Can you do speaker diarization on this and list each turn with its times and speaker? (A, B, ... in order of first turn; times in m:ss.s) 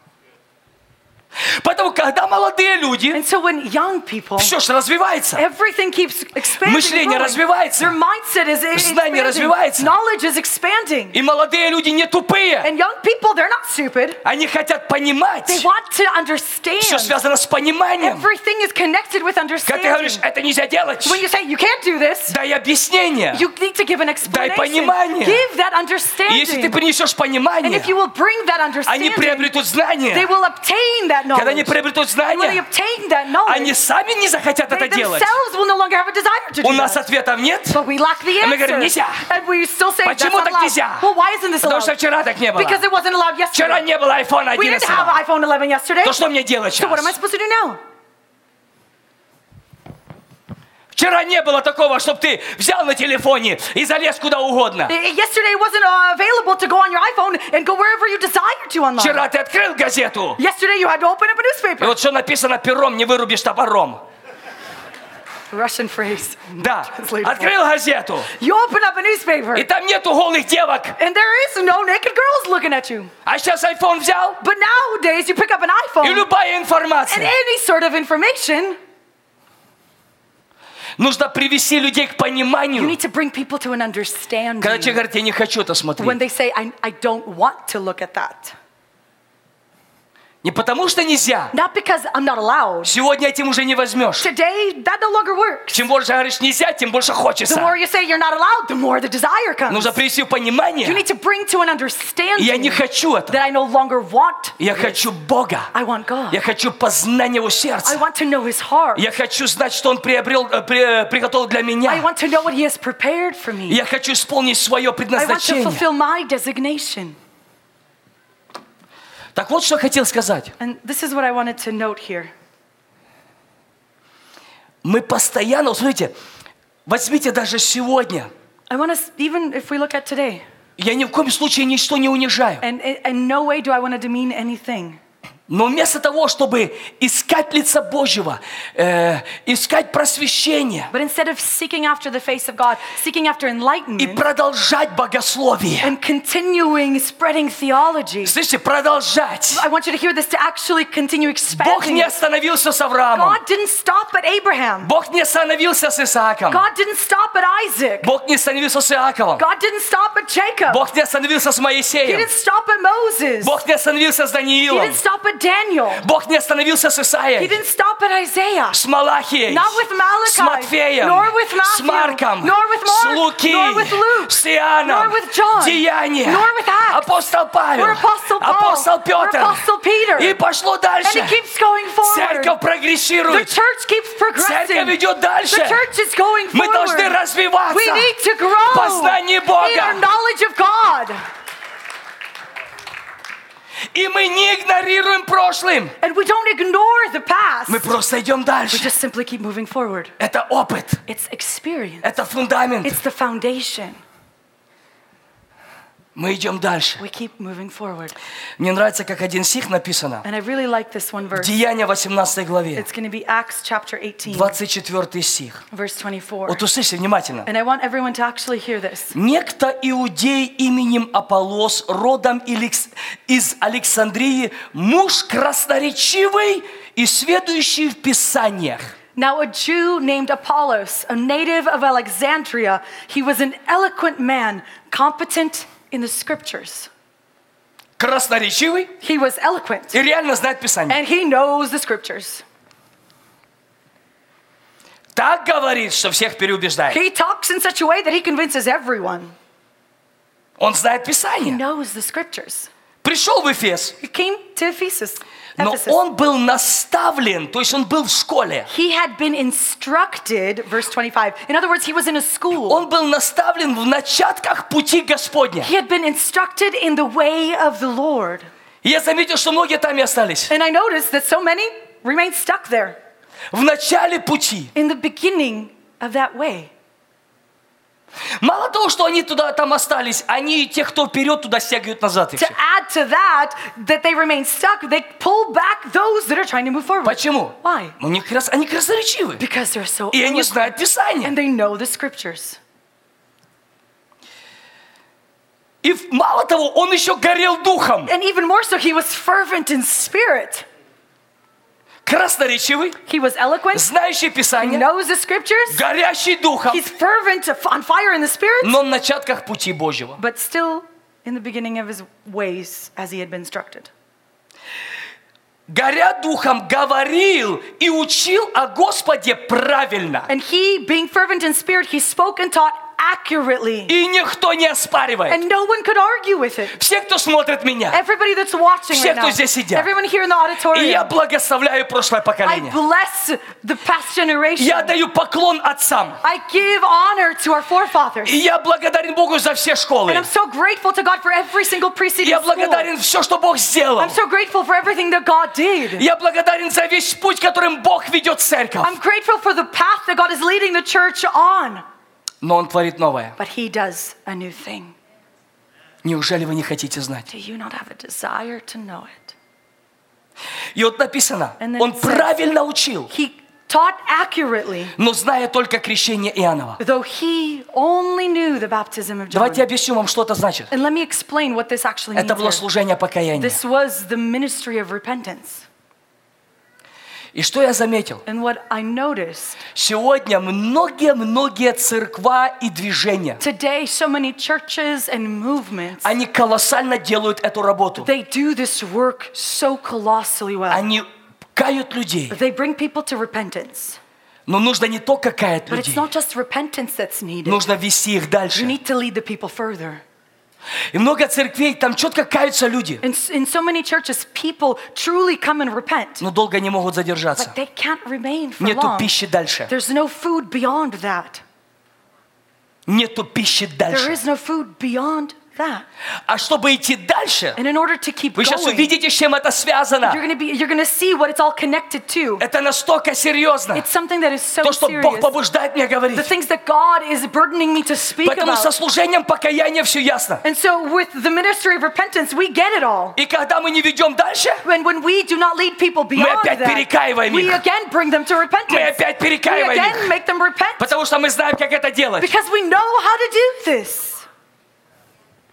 0:01.4-0:03.2 A
0:03.1-0:04.5 B
0:04.4-0:05.4 A
0:05.3-0:11.2 B
0:06.6-0:07.9 A
0:08.7-0:09.9 A
0:11.1-0:12.7 A
0:12.6-0:14.2 B
0:14.2-0:15.6 A
0:15.4-0:17.2 B
0:16.8-0:18.3 A
0:18.0-0:20.2 B
0:19.6-0:21.2 A
0:21.0-0:22.4 B
0:22.3-0:23.4 A
0:23.3-0:26.8 B
0:24.2-0:25.4 A
0:26.3-0:27.9 A
0:27.6-0:29.5 B
0:28.8-0:30.3 A
0:30.1-0:33.8 B
0:31.3-0:32.6 A
0:33.4-0:35.3 A
0:34.7-0:37.0 B
0:36.6-0:37.8 A
0:37.7-0:42.0 B
0:38.4-0:39.2 A
0:40.0-0:41.1 A
0:41.6-0:42.8 A
0:42.5-0:43.8 B
0:43.5-0:45.2 A
0:44.5-0:46.2 B
0:46.0-0:47.1 A
0:46.8-0:47.8 B
0:50.9-0:54.9 A
0:54.9-0:59.2 B
0:59.0-1:00.4 A
1:00.4-1:02.0 B
1:01.8-1:04.0 A
1:05.5-1:07.5 B
1:06.6-1:08.3 A
1:08.3-1:09.7 B
1:09.5-1:11.0 A
1:11.0-1:13.1 B
1:13.2-1:14.4 A
1:14.4-1:16.2 B
1:16.0-1:17.3 A
1:17.1-1:18.8 B
1:21.0-1:23.0 A
1:22.7-1:25.0 B
1:24.6-1:26.2 A
1:26.0-1:28.5 B
1:30.4-1:31.5 A
1:31.5-1:32.9 B
1:32.8-1:34.3 A
1:34.2-1:35.8 B
1:35.7-1:37.7 A
1:37.4-1:40.0 B
1:39.7-1:41.0 A
1:40.8-1:45.0 B
1:42.4-1:43.4 A
1:44.6-1:45.7 A
1:45.7-1:46.4 B
1:46.3-1:48.0 A
1:47.8-1:49.0 B
1:48.9-1:52.1 A
1:51.9-1:53.8 B
1:53.7-1:55.8 A
1:55.1-1:57.2 B
1:59.3-2:00.5 A
2:00.6-2:02.3 B
2:04.8-2:06.1 A
2:06.8-2:08.3 A
2:08.7-2:10.4 B
2:10.8-2:12.6 A
2:12.6-2:15.0 B
2:15.5-2:20.9 A
2:20.9-2:24.2 B
2:24.0-2:25.9 A
2:25.8-2:28.3 B
2:28.2-2:29.6 A
2:29.5-2:32.2 B
2:31.5-2:33.4 A
2:33.1-2:34.9 B
2:34.8-2:36.6 A
2:36.5-2:38.1 B
2:38.0-2:39.4 A
2:39.4-2:40.8 B
2:40.7-2:42.3 A
2:42.0-2:43.6 B
2:43.4-2:45.0 A
2:44.6-2:46.0 B
2:46.0-2:47.6 A
2:47.4-2:48.8 B
2:48.7-2:59.6 A
2:49.5-2:57.1 B
2:57.7-3:00.4 B
3:00.2-3:01.4 A
3:01.0-3:02.6 B
3:02.0-3:03.5 A
3:03.3-3:07.2 B
3:04.4-3:05.9 A
3:06.5-3:08.1 A
3:07.7-3:11.2 B
3:08.7-3:10.0 A
3:13.9-3:15.9 A
3:16.0-3:18.0 B
3:17.7-3:18.9 A
3:18.7-3:20.1 B
3:20.2-3:21.0 A
3:21.1-3:22.1 B
3:22.0-3:23.0 A
3:22.8-3:24.0 B
3:26.1-3:27.0 A
3:27.0-3:28.2 B
3:28.6-3:30.2 A
3:30.2-3:31.5 B
3:31.3-3:32.8 A
3:32.7-3:34.6 B
3:34.3-3:35.6 A
3:35.7-3:36.6 B
3:36.5-3:37.5 A
3:37.4-3:39.2 B
3:39.1-3:48.9 A
3:49.2-3:56.9 B
3:58.0-3:58.9 A
3:59.0-4:00.0 B
3:59.9-4:01.0 A
4:00.9-4:02.4 B
4:05.1-4:07.0 A
4:06.9-4:09.3 B
4:10.6-4:11.6 A
4:11.4-4:12.7 B
4:13.0-4:14.0 A
4:14.0-4:16.0 B
4:15.6-4:18.7 A
4:18.7-4:22.8 B
4:22.6-4:25.7 A
4:25.6-4:28.5 B
4:28.8-4:30.5 A
4:30.5-4:33.0 B
4:33.5-4:34.7 A
4:34.7-4:36.7 B
4:38.4-4:42.6 A
4:42.4-4:48.0 B
4:47.0-4:49.4 A
4:49.4-4:52.6 B
4:50.1-4:51.3 A
4:55.8-4:58.1 A
4:58.0-5:00.6 B
5:02.0-5:03.0 A
5:03.0-5:03.9 B
5:03.7-5:04.8 A
5:04.6-5:05.8 B
5:05.7-5:06.8 A
5:06.7-5:08.8 B
5:08.6-5:10.2 A
5:10.2-5:13.9 B
5:15.7-5:20.3 A
5:20.3-5:23.9 B
5:23.9-5:25.4 A
5:25.3-5:26.8 B
5:26.7-5:28.0 A
5:27.9-5:31.1 B
5:28.9-5:29.9 A
5:30.7-5:32.8 A
5:32.4-5:34.9 B
5:34.6-5:36.2 A
5:36.2-5:38.3 B
5:38.2-5:40.3 A
5:40.1-5:42.9 B
5:42.2-5:44.2 A
5:44.0-5:46.0 B
5:45.9-5:48.9 A
5:48.8-5:51.8 B
5:52.4-5:53.4 A
5:53.4-5:54.9 B
5:56.0-5:57.3 A
5:57.3-5:59.3 B
6:00.7-6:03.1 A
6:01.6-6:02.4 B
6:03.1-6:04.9 B
6:05.0-6:06.8 A
6:06.8-6:09.7 B
6:09.3-6:10.7 A
6:10.7-6:12.6 B
6:12.2-6:13.6 A
6:13.4-6:15.6 B
6:17.3-6:18.2 A
6:18.2-6:19.6 B
6:19.7-6:23.4 A
6:23.4-6:26.1 B
6:26.0-6:28.1 A
6:28.0-6:30.8 B
6:30.7-6:32.4 A
6:32.3-6:34.0 B
6:34.5-6:36.1 A
6:35.7-6:37.6 B
6:37.4-6:38.7 A
6:38.5-6:40.0 B
6:40.9-6:43.0 A
6:43.0-6:46.2 B
6:46.2-6:47.5 A
6:47.4-6:49.1 B
6:48.6-6:49.7 A
6:49.7-6:51.4 B
6:52.9-6:54.2 A
6:53.9-6:55.8 B
6:56.3-6:57.6 A
6:57.6-6:58.9 B
6:58.4-7:00.2 A
7:00.0-7:02.4 B
7:02.4-7:03.8 A
7:03.7-7:05.3 B
7:04.6-7:06.3 A
7:06.1-7:08.7 B
7:08.2-7:10.4 A
7:10.4-7:13.2 B
7:13.2-7:14.6 A
7:14.6-7:20.9 B
7:16.1-7:17.6 A
7:18.7-7:20.1 A
7:20.8-7:22.3 A
7:22.2-7:24.2 B